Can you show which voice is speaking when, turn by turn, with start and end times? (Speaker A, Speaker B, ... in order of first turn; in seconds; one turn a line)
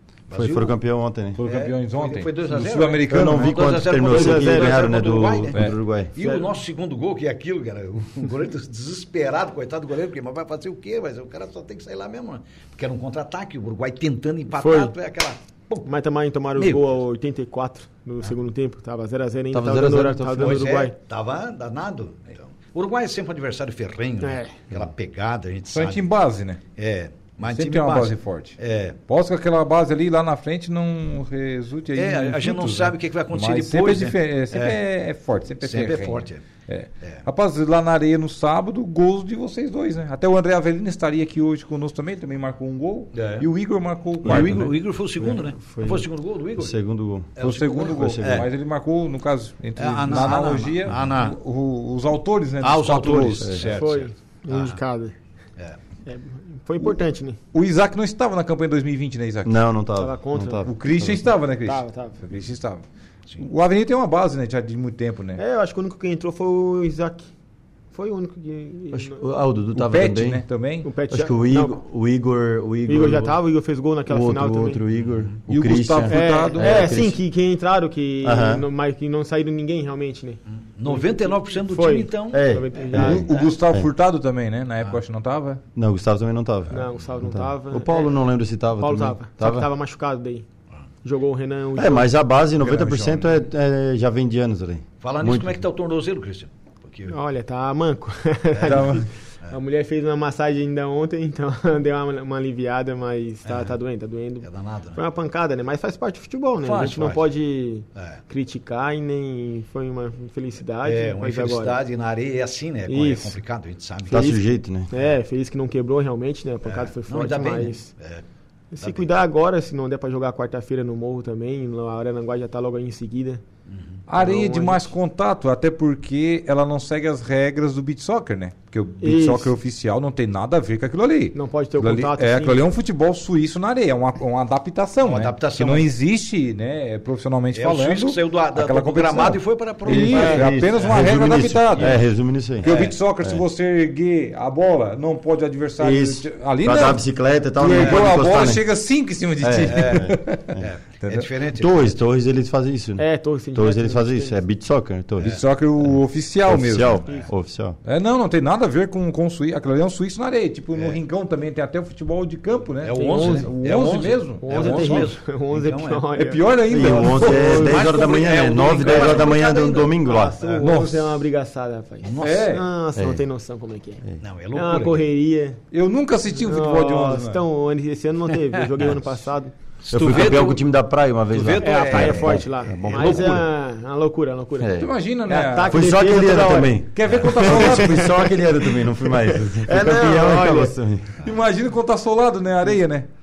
Speaker A: 0.3-0.7
Speaker B: 0.3-1.4
Speaker C: 1.4-3.6
Speaker A: 1.4-5.6
Speaker B: 3.1-6.1
Speaker D: 4.1-5.0
Speaker A: 6.2-15.9
Speaker D: 6.2-6.5
Speaker D: 14.6-14.9
Speaker D: 15.9-20.9
Speaker A: 16.6-16.9
Speaker B: 19.5-20.9
Speaker A: 20.4-26.0
Speaker D: 24.2-24.6
Speaker C: 25.7-26.6
Speaker A: 26.8-29.0
Speaker C: 27.4-28.6
Speaker C: 29.1-44.7
Speaker A: 32.0-34.8
Speaker A: 35.6-36.4
Speaker A: 43.1-43.5
Speaker A: 44.2-46.8
Speaker B: 44.2-48.5
Speaker A: 47.4-48.5
Speaker C: 47.4-53.5
Speaker A: 49.8-51.4
Speaker A: 52.6-54.8
Speaker D: 53.6-55.1
Speaker D: 56.1-57.4
Speaker C: 57.5-59.5
Speaker B: 59.5-61.2
Speaker D: 60.0-60.7
Speaker C: 60.7-62.9
Speaker D: 61.6-62.2
Speaker C: 63.4-65.4
Speaker D: 65.4-67.3
Speaker D: 67.9-69.2
Speaker B: 68.9-70.4
Speaker C: 69.8-70.9
Speaker D: 70.8-71.8
Speaker B: 71.1-73.4
Speaker D: 72.9-74.8
Speaker B: 74.1-77.2
Speaker C: 75.5-77.0
Speaker D: 76.1-83.4
Speaker B: 78.2-78.7
Speaker A: 80.5-82.4
Speaker B: 82.3-83.9
Speaker C: 83.0-85.6
Speaker B: 85.8-89.7
Speaker D: 86.7-88.2
Speaker D: 88.8-90.5
Speaker D: 91.0-92.1
Speaker B: 91.8-95.6
Speaker C: 92.6-93.3
Speaker A: 95.0-97.2
Speaker D: 97.1-111.8
Speaker A: 98.6-98.8
Speaker C: 98.6-99.1
Speaker A: 103.5-103.8
Speaker A: 104.4-105.0
Speaker A: 106.6-107.2
Speaker A: 110.8-114.4
Speaker D: 112.9-113.4
Speaker B: 114.1-114.9
Speaker D: 114.1-117.9
Speaker A: 116.6-118.2
Speaker D: 118.7-123.4
Speaker A: 118.8-119.1
Speaker A: 123.7-124.0
Speaker C: 124.1-142.0
Speaker D: 124.2-124.9
Speaker D: 129.0-129.5
Speaker D: 131.3-132.7
Speaker A: 135.0-135.9
Speaker A: 137.5-140.7
Speaker B: 139.9-142.7
Speaker A: 142.6-142.9
Speaker C: 142.6-151.3
Speaker B: 145.8-148.7
Speaker A: 147.8-148.1
Speaker B: 149.4-150.7
Speaker A: 149.7-151.9
Speaker B: 151.6-157.8
Speaker D: 153.0-154.4
Speaker C: 155.2-157.1
Speaker C: 157.8-165.1
Speaker A: 162.8-166.1
Speaker D: 163.0-163.5
Speaker D: 164.4-167.1
Speaker C: 166.2-167.9
Speaker B: 166.7-170.4
Speaker A: 167.2-170.6
Speaker D: 168.9-169.4
Speaker D: 170.0-174.0
Speaker C: 170.5-171.2
Speaker A: 172.0-172.5
Speaker C: 172.2-172.6
Speaker B: 172.9-173.2
Speaker A: 174.2-175.1
Speaker D: 174.5-175.6
Speaker C: 175.7-177.4
Speaker D: 176.3-179.5
Speaker A: 179.8-180.6
Speaker B: 179.9-183.4
Speaker A: 181.3-183.4
Speaker D: 181.6-188.8
Speaker B: 184.6-184.9
Speaker C: 184.8-185.8
Speaker B: 185.7-191.2
Speaker C: 186.9-188.0
Speaker A: 189.8-190.7
Speaker C: 191.2-193.1